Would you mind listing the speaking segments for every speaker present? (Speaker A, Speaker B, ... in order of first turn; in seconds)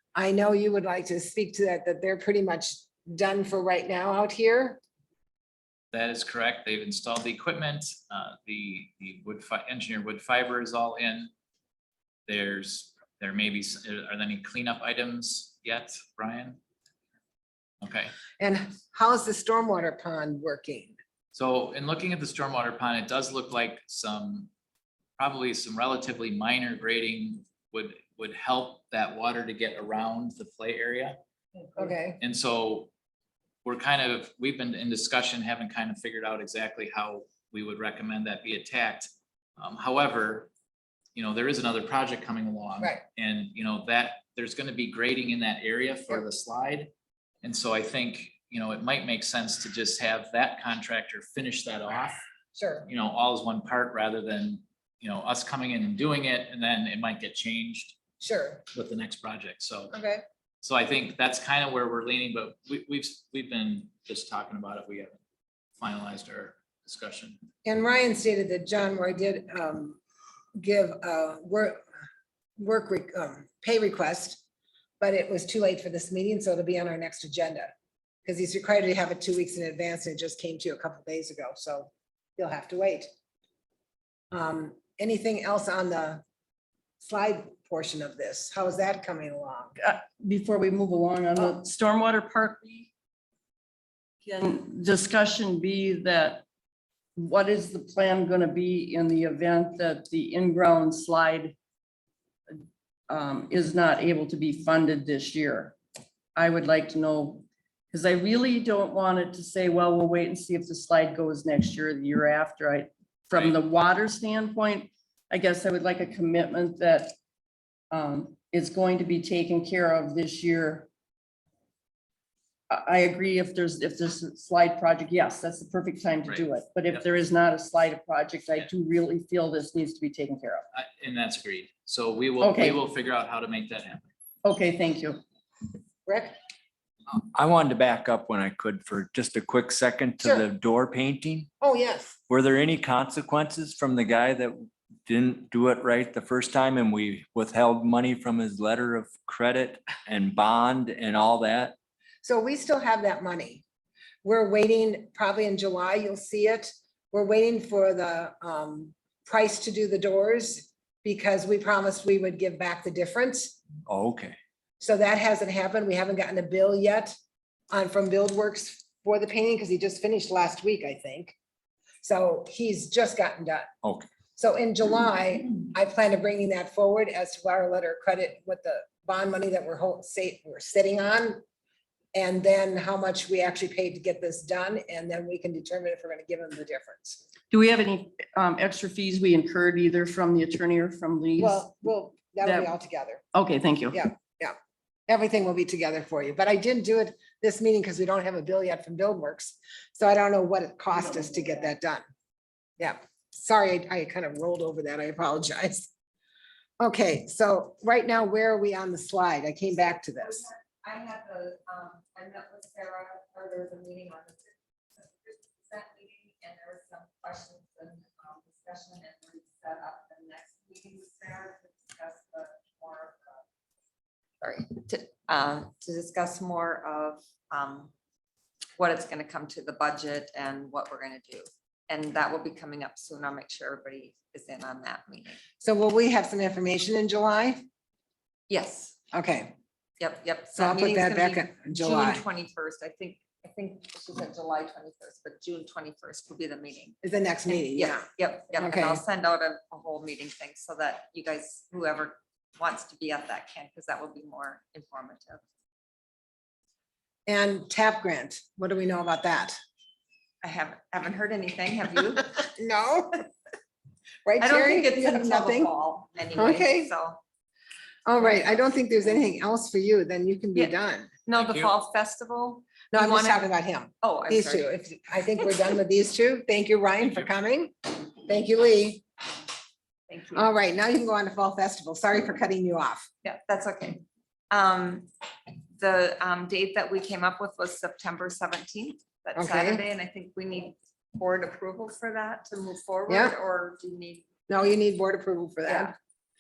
Speaker A: 0.1-4.8, 18.4-21.0, 31.8-32.2, 52.6-52.9, 58.2-58.6, 59.9-60.2, 67.7-70.0, 70.6-71.8, 72.6-74.4, 75.0-77.7, 78.2-83.1, 84.3-86.2, 87.0-89.8, 136.1-136.3, 140.2-140.5, 141.6-142.2, 152.2-153.6, 154.2-163.6, 164.8-167.2, 167.7-171.3, 172.0-173.7, 174.4-181.4, 182.2-187.2, 191.4-193.2, 193.9-194.6, 195.1-202.1, 202.8-205.9, 206.8-210.5, 235.6-237.7, 239.1-239.5, 240.6-242.2, 247.0-249.0, 257.3-259.6, 262.6-263.2, 264.2-265.7, 266.4-266.9, 268.1-271.1, 272.9-279.1, 280.3-283.1, 289.4-289.8, 293.1-293.4, 294.5-295.9
Speaker B: 5.9-11.3, 12.3-16.6, 17.8-18.1, 21.3-24.5, 25.2-31.2, 32.2-32.9, 33.6-40.5, 41.2-46.9, 47.4-52.2, 52.9-58.0, 58.7-59.9, 60.6-65.2, 65.8-67.4, 126.3-127.0, 130.7-134.1
Speaker C: 89.8-92.9, 94.2-96.4, 97.2-101.5, 102.5-105.8, 106.4-117.2, 117.9-120.9, 122.7-130.7, 132.4-132.8, 134.4-135.2, 187.5-191.8, 192.4-192.7, 193.3-194.0
Speaker D: 137.3-141.5, 142.3-151.8, 163.9-164.4
Speaker E: 209.8-223.4, 224.4-227.9, 228.8-235.4, 238.5-239.0, 240.0-255.4, 260.4-262.5, 264.4-267.2, 268.2-268.5, 271.3-273.5, 274.0-274.7, 280.1-280.5, 283.2-285.1, 285.8-294.5, 295.6-295.9